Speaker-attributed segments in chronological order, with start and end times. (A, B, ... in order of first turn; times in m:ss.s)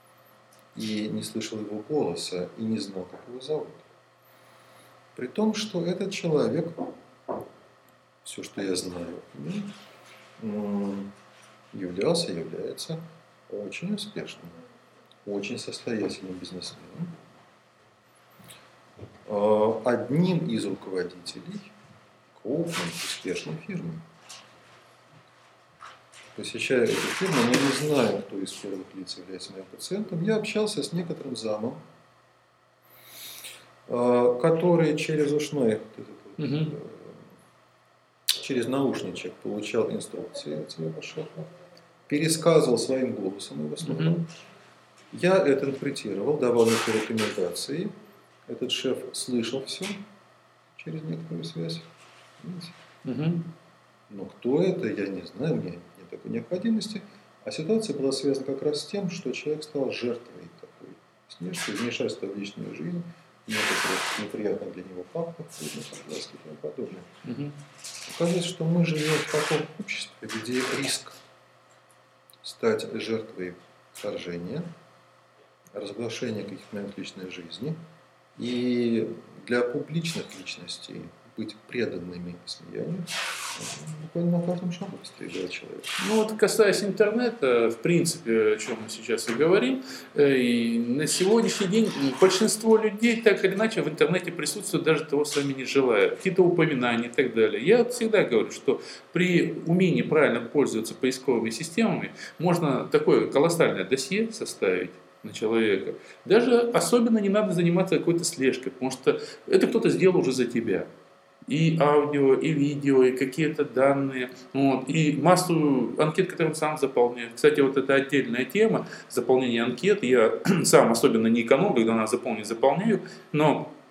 0:00.7-0:03.9 A
0:05.2-0:07.0 A
0:08.2-0:09.7 A
0:10.4-0:11.1 A
0:11.7-0:14.6 A
0:15.2-0:17.2 A
0:19.3-0:21.7 A
0:22.3-0:24.1 A
0:26.4-0:31.8 A
0:33.9-0:37.3 A
0:36.4-0:36.7 B
0:38.4-0:41.5 A
0:42.1-0:44.3 A
0:43.8-0:44.2 B
0:45.1-0:47.9 A
0:48.5-0:50.1 A
0:50.8-0:51.9 A
0:52.4-0:52.8 A
0:53.0-0:53.5 B
0:54.1-1:07.1 A
1:07.2-1:07.6 B
1:08.1-1:11.2 A
1:12.4-1:14.7 A
1:15.7-1:17.8 A
1:18.4-1:25.9 A
1:26.0-1:50.9 B
1:51.5-2:03.7 B